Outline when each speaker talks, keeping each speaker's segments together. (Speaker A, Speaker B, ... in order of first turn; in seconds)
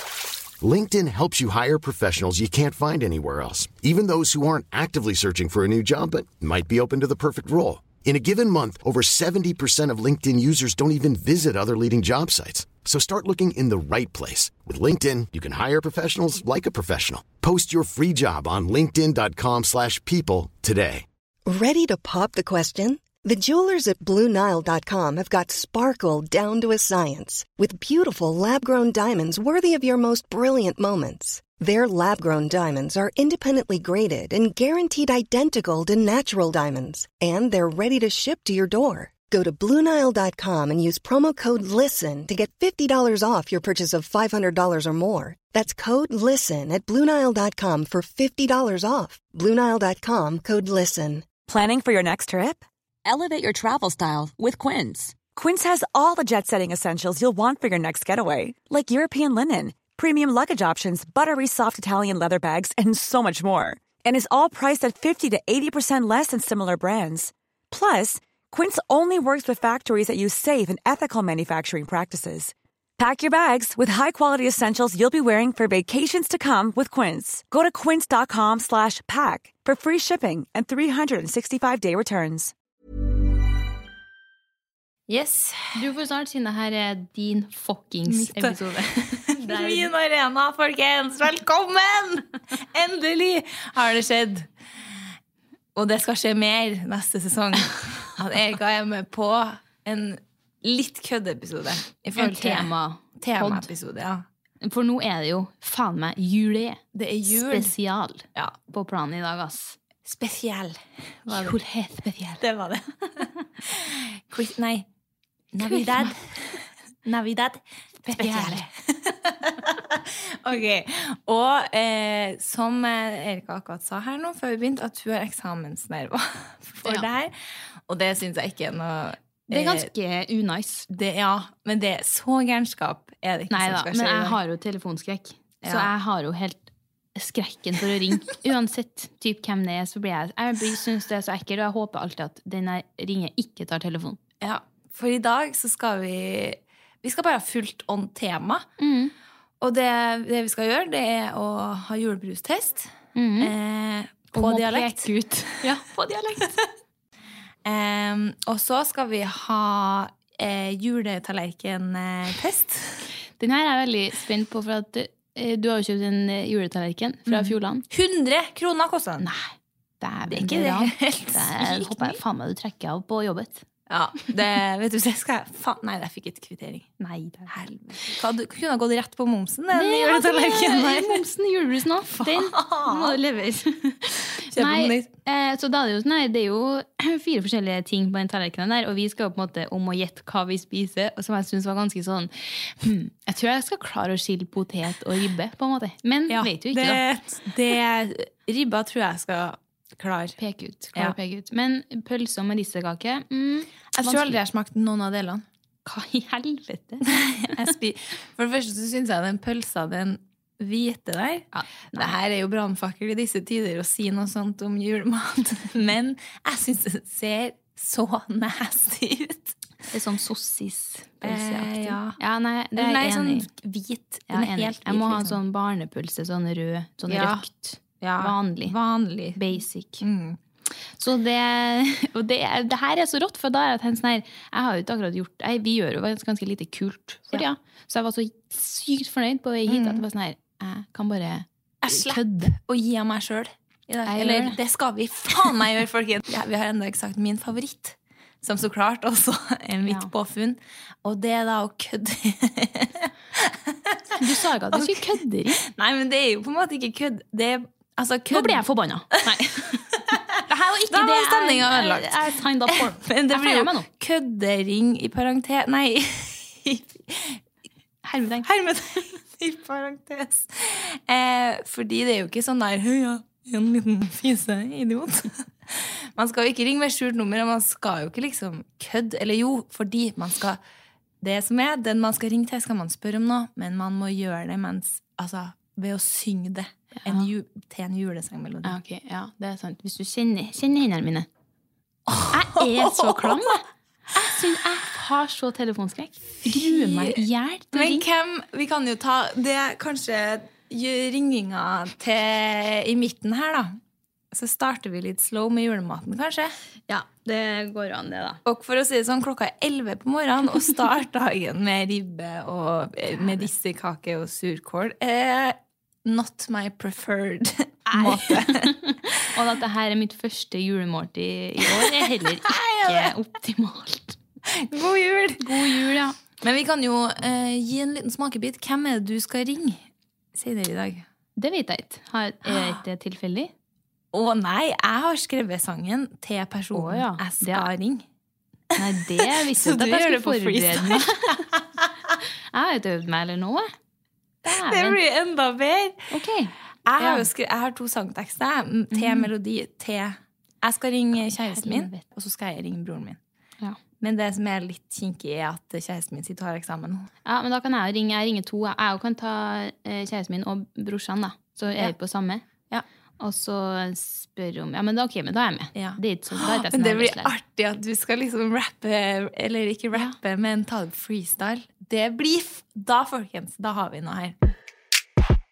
Speaker A: 0.6-21.1
Speaker B: 21.4-51.3
Speaker C: 51.5-82.5
Speaker D: 85.1-85.8, 88.1-94.5, 95.8-104.2, 106.9-107.7, 110.0-111.6, 112.4-114.9, 115.5-127.3, 127.9-129.9, 130.9-134.4, 135.6-135.9, 144.4-148.7, 149.6-155.1, 157.6-163.0, 167.3-169.2, 170.3-172.2, 173.9-176.9, 177.5-181.2, 182.2-183.2, 184.4-185.1, 196.3-200.4, 203.9-205.4, 207.1-219.5, 221.2-222.2, 222.8-225.4, 227.1-227.4, 228.0-229.4, 230.0-230.4, 239.7-240.0, 241.8-254.2, 254.7-258.6, 259.3-262.1, 262.7-267.4, 268.4-280.6, 281.2-288.8, 292.1-293.6, 296.5-303.8, 304.3-306.5, 308.4-318.8, 321.7-323.1, 324.5-325.8, 326.4-329.8, 330.4-331.1, 332.5-332.8, 334.1-338.1, 338.8-341.6, 344.4-346.1, 346.9-353.2, 354.0-357.1, 365.8-374.4
Speaker E: 85.8-89.9, 102.2-103.7, 104.6-109.8, 111.3-112.4, 115.8-116.1, 118.2-118.6, 129.5-130.9, 133.5-136.6, 137.2-144.2, 148.8-149.1, 153.2-153.5, 154.3-156.6, 163.4-167.8, 169.2-173.6, 177.0-177.5, 179.7-197.0, 200.4-204.4, 205.8-207.7, 211.5-212.1, 219.9-223.5, 224.3-228.8, 229.3-230.0, 231.0-242.5, 244.1-244.6, 249.8-250.1, 254.2-255.6, 258.3-263.9, 268.1-268.5, 287.0-287.3, 288.6-291.3, 292.3-298.1, 306.9-308.4, 317.9-324.2, 325.4-326.2, 331.4-333.5, 336.7-337.7, 338.8-341.4, 342.5-343.7, 344.4-345.0, 346.1-347.3, 348.9-349.3, 351.5-352.0, 357.2-362.4, 363.2-367.3